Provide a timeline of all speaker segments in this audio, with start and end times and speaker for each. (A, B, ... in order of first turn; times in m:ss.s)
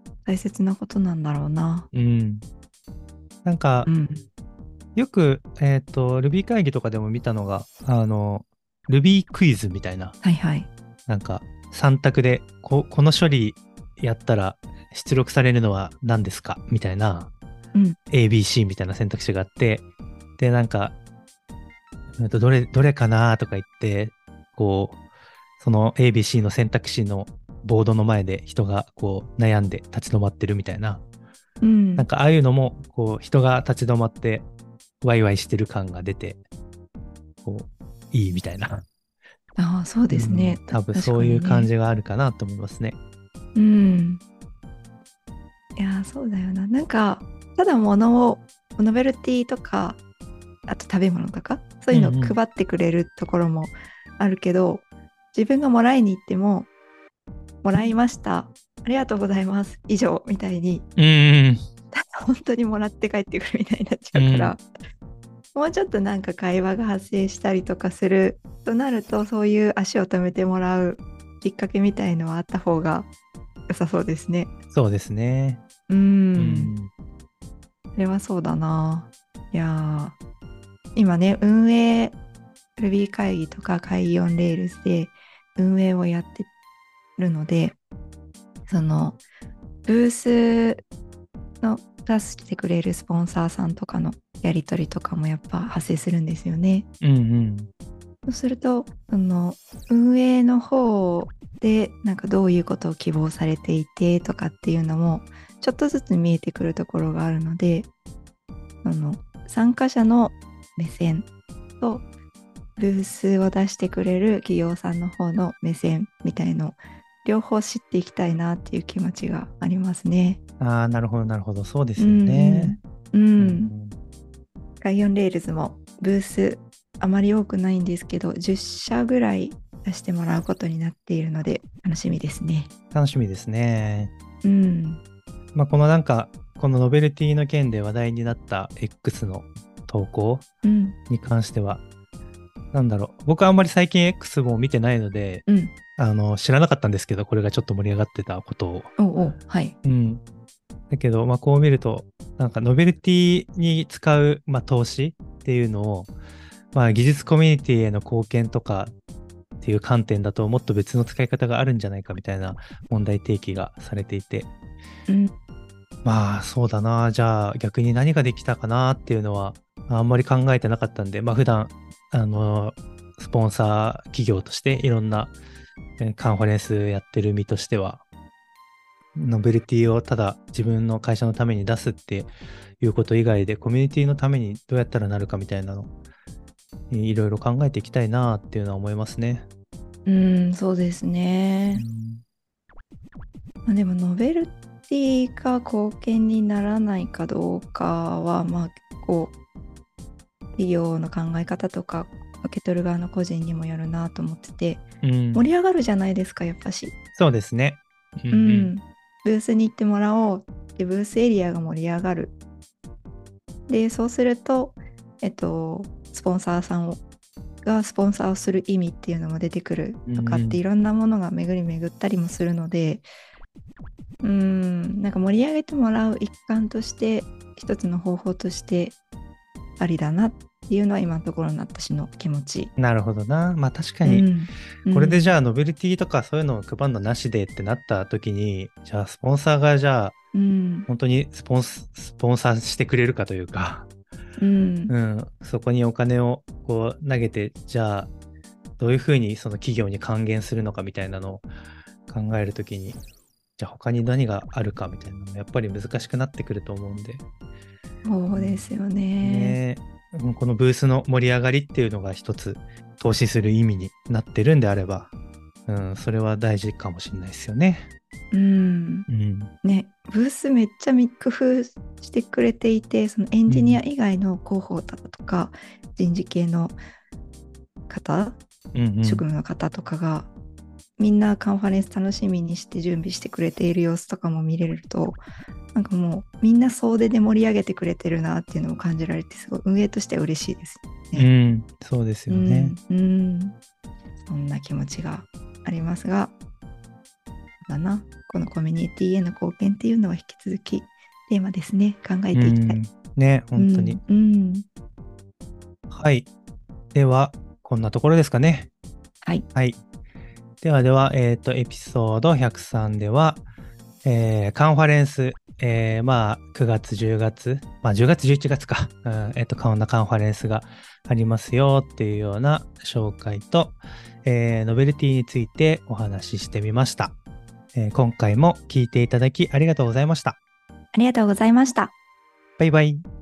0:00.2-0:01.9 A
0:01.9-0:02.4 B
0:03.4-0:03.9 B
0:03.8-0:04.2 A
0:04.9-0:10.2 B
0:10.2-0:10.7 A
0:11.1-0:17.3 B
0:18.1-0:19.8 B
0:20.4-0:20.9 B
0:22.2-0:25.0 B
0:25.6-0:31.0 B
0:31.6-0:32.1 A
0:32.0-0:34.5 B
0:35.0-0:36.4 B
0:37.4-0:38.8 B
0:39.6-0:41.7 A
0:40.1-0:43.0 B
0:43.5-0:44.2 A
0:45.8-0:50.0 A
0:50.7-0:56.7 A
0:51.9-0:52.4 B
0:57.6-1:00.9 A
1:01.0-1:01.6 B
1:01.9-1:04.7 A
1:04.1-1:04.5 B
1:05.5-1:13.1 A
1:13.7-1:14.5 A
1:14.7-1:15.6 B
1:15.9-1:16.7 A
1:16.4-1:16.9 B
1:17.9-1:20.2 A
1:20.9-1:22.2 A
1:22.8-1:26.5 A
1:27.2-1:27.8 A
1:28.7-1:29.2 A
1:29.8-1:30.8 A
1:31.6-1:36.9 A
1:37.0-1:37.7 B
1:38.3-1:47.9 A
1:48.8-1:51.3 A
1:51.8-1:52.0 A
1:52.8-2:00.4 A
2:00.6-2:02.8 B
2:02.0-2:03.7 A
2:03.4-2:04.0 B
2:04.8-2:12.7 A
2:12.9-2:14.1 B
2:14.4-2:15.0 A
2:15.5-2:20.4 B
2:20.6-2:21.0 A
2:21.1-2:21.8 B
2:22.7-2:25.4 B
2:25.4-2:25.7 A
2:26.0-2:28.9 B
2:29.0-2:29.7 A
2:29.8-2:30.2 B
2:30.9-2:36.1 B
2:36.7-2:38.9 B
2:39.6-2:44.5 B
2:46.0-2:55.3 B
2:56.0-2:58.0 B
2:59.1-3:05.9 B
3:06.9-3:09.4 B
3:10.0-3:11.8 A
3:11.7-3:12.2 B
3:13.6-3:19.3 A
3:20.6-3:26.9 A
3:25.0-3:25.5 B
3:27.2-3:28.7 B
3:28.3-3:32.3 A
3:33.7-3:37.0 A
3:37.6-3:43.0 A
3:40.1-3:40.6 B
3:44.2-3:49.0 A
3:49.8-3:52.7 A
3:52.8-3:54.3 B
3:54.0-3:55.3 A
3:54.9-4:00.2 B
4:00.3-4:00.9 A
4:00.9-4:03.9 B
4:04.4-4:04.9 A
4:04.9-4:08.1 B
4:08.8-4:11.5 B
4:12.1-4:13.0 B
4:13.6-4:17.2 B
4:18.0-4:19.6 A
4:18.4-4:18.7 B
4:19.2-4:25.1 B
4:25.7-4:27.9 B
4:28.3-4:29.1 A
4:29.1-4:29.5 B
4:29.6-4:36.8 A
4:33.5-4:33.8 B
4:37.9-4:38.4 A
4:38.7-4:39.2 B
4:39.0-4:40.3 A
4:41.0-4:45.2 A
4:45.7-4:51.3 A
4:51.1-4:52.7 B
4:52.3-4:53.5 A
4:54.2-4:56.3 A
4:57.6-5:02.8 A
5:02.3-5:04.0 B
5:03.6-5:04.6 A
5:05.9-5:06.3 B
5:06.9-5:08.7 B
5:10.6-5:13.4 B
5:14.0-5:27.1 B
5:27.7-5:30.4 B
5:30.9-5:31.9 A
5:32.6-5:33.0 B